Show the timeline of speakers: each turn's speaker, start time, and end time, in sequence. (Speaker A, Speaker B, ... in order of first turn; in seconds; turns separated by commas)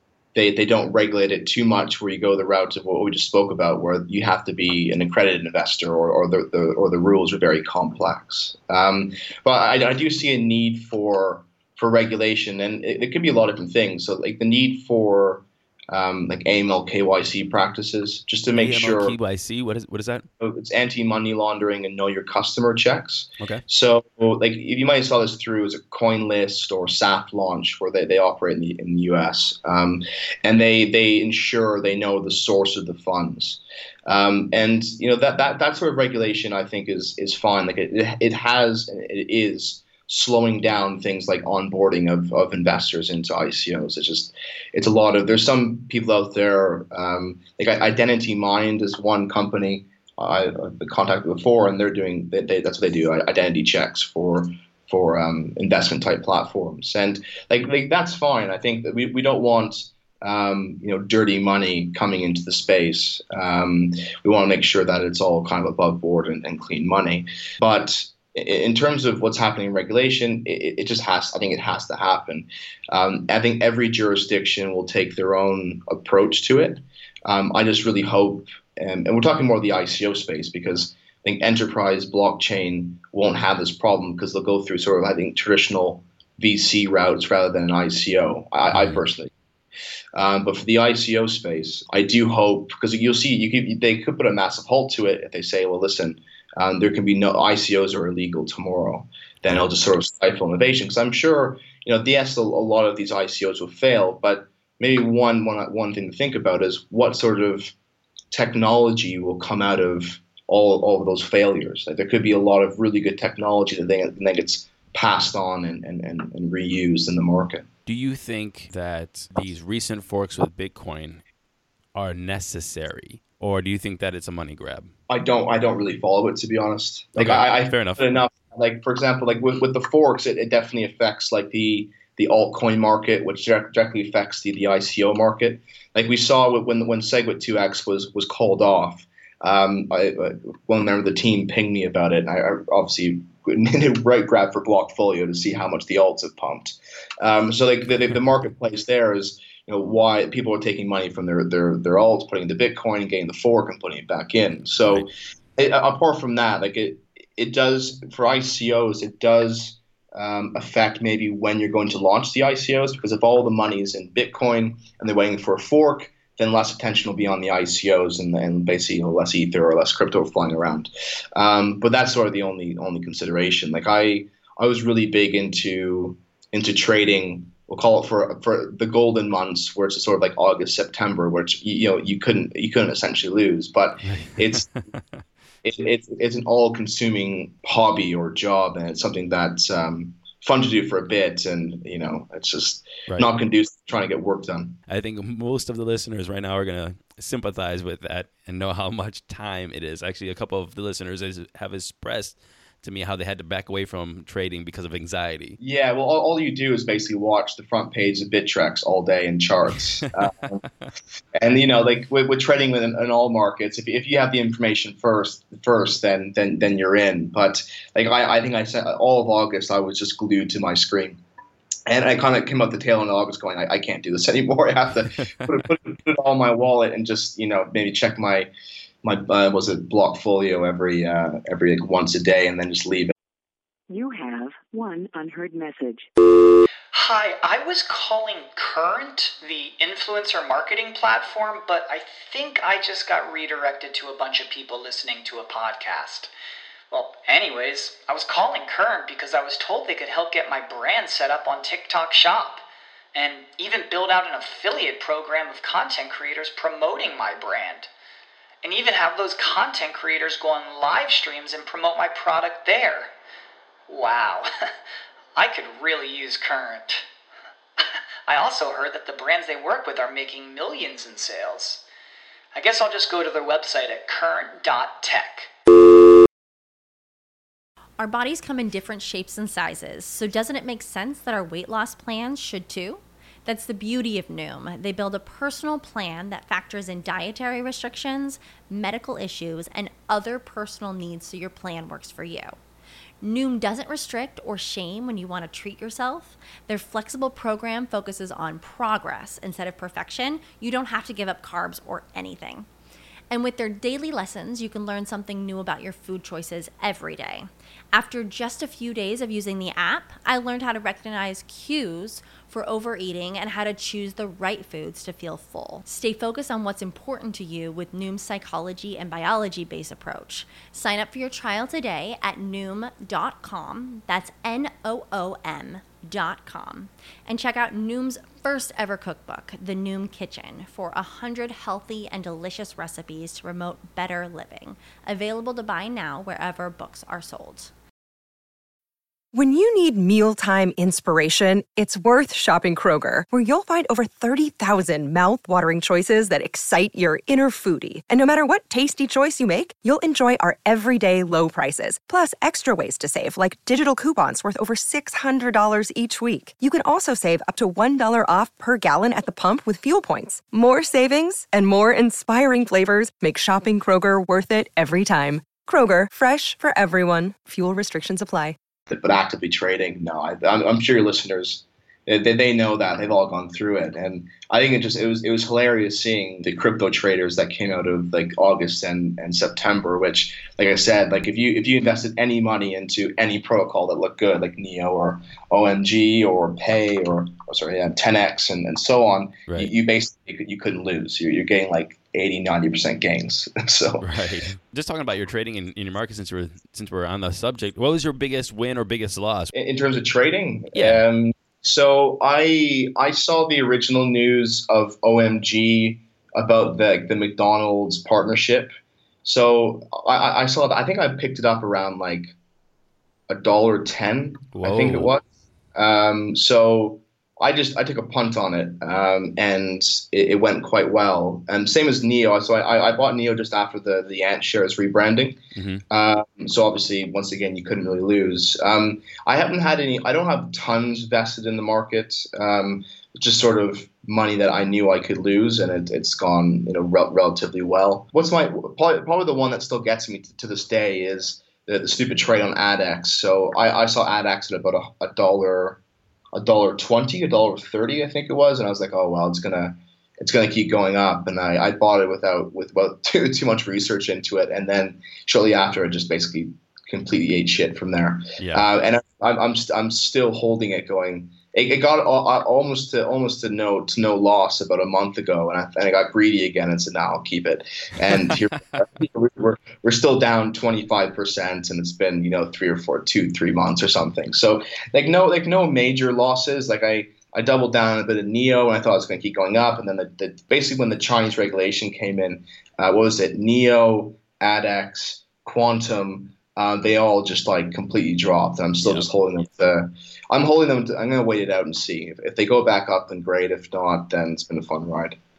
Speaker A: 0.3-19.1, Speaker B: 18.5-20.3, Speaker A: 20.4-89.3, Speaker B: 88.7-89.0, Speaker A: 90.2-107.7, Speaker A: 108.3-117.7, Speaker B: 117.8-121.2, Speaker B: 121.9-124.9, Speaker A: 125.1-155.1, Speaker B: 127.2-128.1, Speaker B: 154.8-155.0, Speaker A: 155.6-184.7, Speaker B: 184.1-184.6, Speaker A: 185.6-194.8, Speaker B: 194.9-205.6, Speaker A: 205.6-210.6, Speaker A: 211.3-221.2, Speaker A: 221.9-228.5, Speaker A: 229.0-233.1, Speaker C: 233.9-236.1, Speaker D: 236.9-246.3, Speaker D: 246.9-257.9, Speaker D: 258.6-263.1, Speaker D: 263.9-264.5, Speaker D: 265.3-267.1, Speaker D: 268.3-271.8, Speaker D: 272.5-275.5, Speaker E: 278.0-292.6, Speaker E: 293.2-302.7, Speaker E: 303.3-337.7, Speaker F: 339.3-368.6, Speaker A: 368.9-394.1, Speaker B: 394.0-399.5, Speaker A: 399.5-408.7, Speaker B: 400.7-401.0, Speaker A: 409.2-412.3, Speaker A: 413.3-415.2, Speaker B: 414.6-415.1, Speaker A: 415.7-425.4, Speaker B: 425.5-425.8, Speaker A: 425.9-445.8, Speaker A: 446.3-495.2, Speaker B: 458.4-458.7, Speaker B: 488.8-489.1